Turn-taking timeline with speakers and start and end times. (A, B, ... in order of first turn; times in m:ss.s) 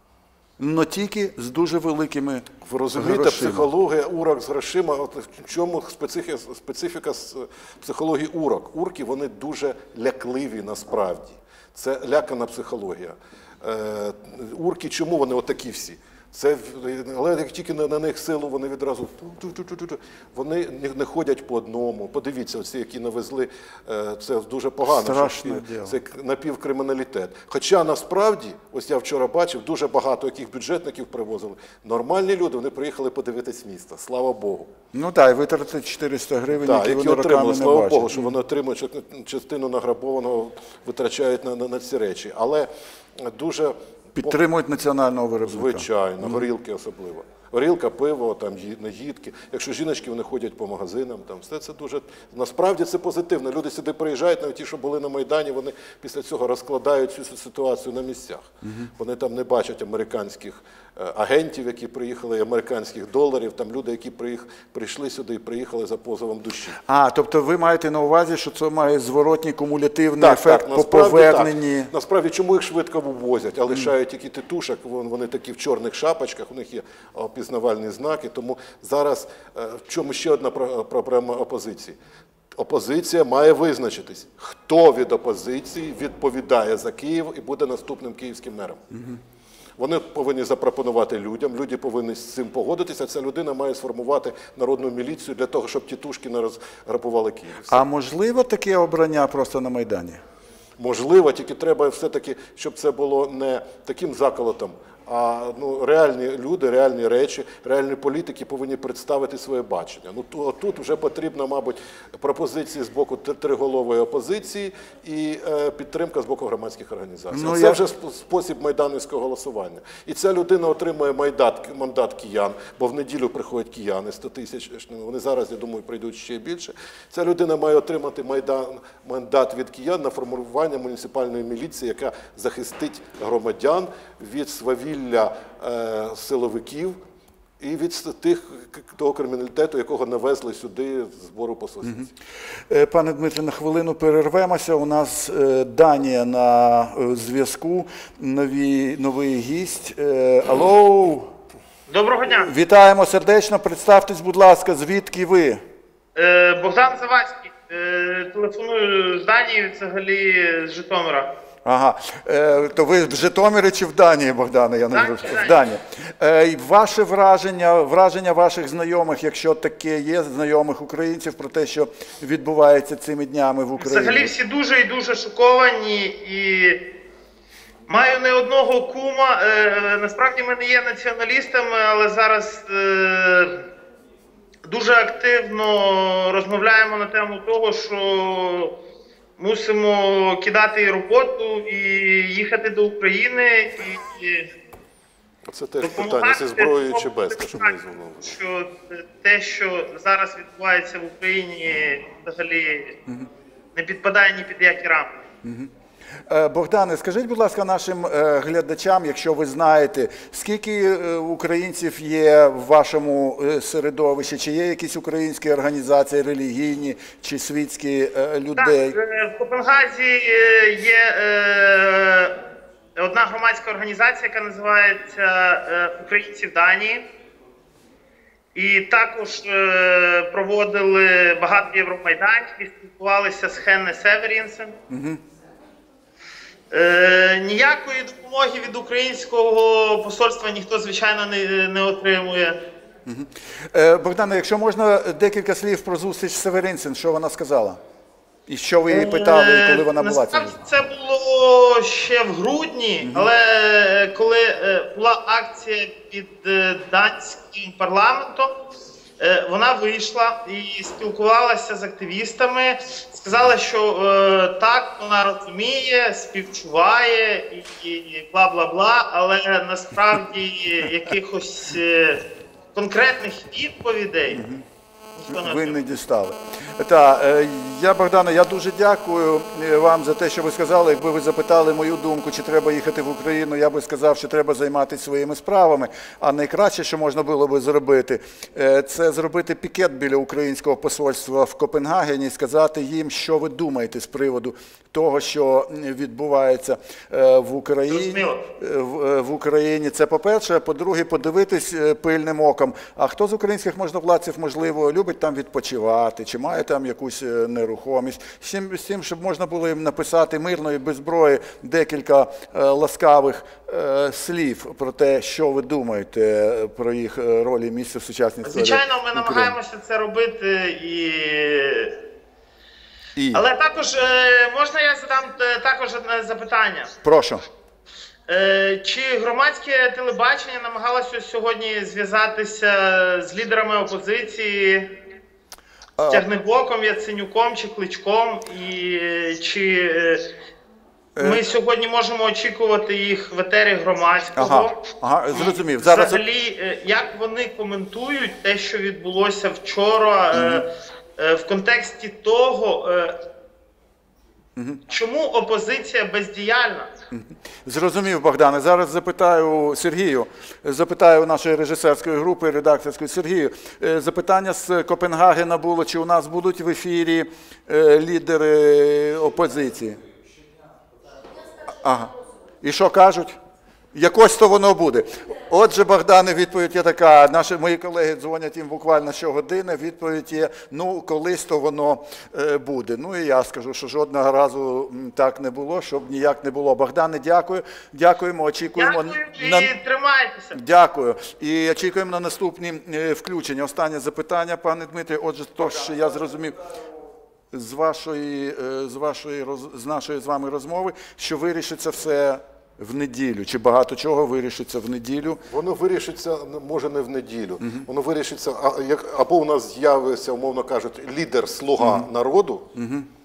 0:00.6-0:03.7 A
0:02.6-0:34.7 B
0:24.9-0:26.0 A
0:34.9-0:38.3 A
0:36.6-0:44.3 B
0:44.2-0:46.4 A
0:45.4-0:58.5 B
0:58.6-0:58.9 A
0:59.0-1:06.8 B
1:06.9-1:11.9 A
1:10.2-1:21.9 B
1:22.5-1:28.8 B
1:28.9-1:29.2 A
1:29.8-1:37.8 B
1:37.7-1:40.2 A
1:40.8-2:17.0 B
1:57.3-1:57.8 A
2:17.6-2:22.1 B
2:22.7-2:31.3 A
2:31.9-2:32.5 C
2:32.3-2:35.6 A
2:36.1-2:41.3 C
2:41.6-2:54.3 A
2:44.9-2:45.6 C
2:53.8-2:56.8 C
2:57.9-3:03.6 C
3:04.7-3:08.7 C
3:09.4-3:14.5 C
3:15.5-3:18.3 B
3:15.8-3:22.9 C
3:23.8-3:25.1 C
3:25.4-3:25.7 A
3:26.3-3:39.0 A
3:38.6-3:42.4 C
3:43.0-3:47.0 C
3:48.5-3:54.7 C
3:54.9-3:55.2 A
3:56.7-4:02.6 C
4:03.0-4:07.8 A
4:08.5-4:10.6 A
4:08.9-4:18.5 C
4:13.0-4:13.3 A
4:19.2-4:32.2 C
4:32.7-4:34.4 C
4:34.3-4:34.6 A
4:35.2-4:35.8 C
4:35.3-5:19.6 A
4:57.9-4:58.4 C
5:18.4-5:22.0 C
5:23.2-5:23.4 A
5:23.3-5:26.9 C
5:27.0-5:27.4 A
5:28.3-5:34.9 C
5:36.0-5:36.3 A
5:36.1-5:40.3 C
5:41.2-5:41.4 A
5:41.2-5:44.8 C
5:44.4-5:46.2 A
5:45.3-5:50.6 C
5:50.3-5:50.6 A
5:51.2-5:53.2 C
5:54.9-5:56.9 C
5:57.1-6:10.0 A
6:11.8-6:13.4 A
6:13.9-6:29.7 A
6:28.8-6:30.5 C
6:30.5-6:36.6 A
6:37.5-6:45.4 A
6:45.5-6:52.7 B
6:51.8-6:52.1 A
6:52.7-6:53.1 A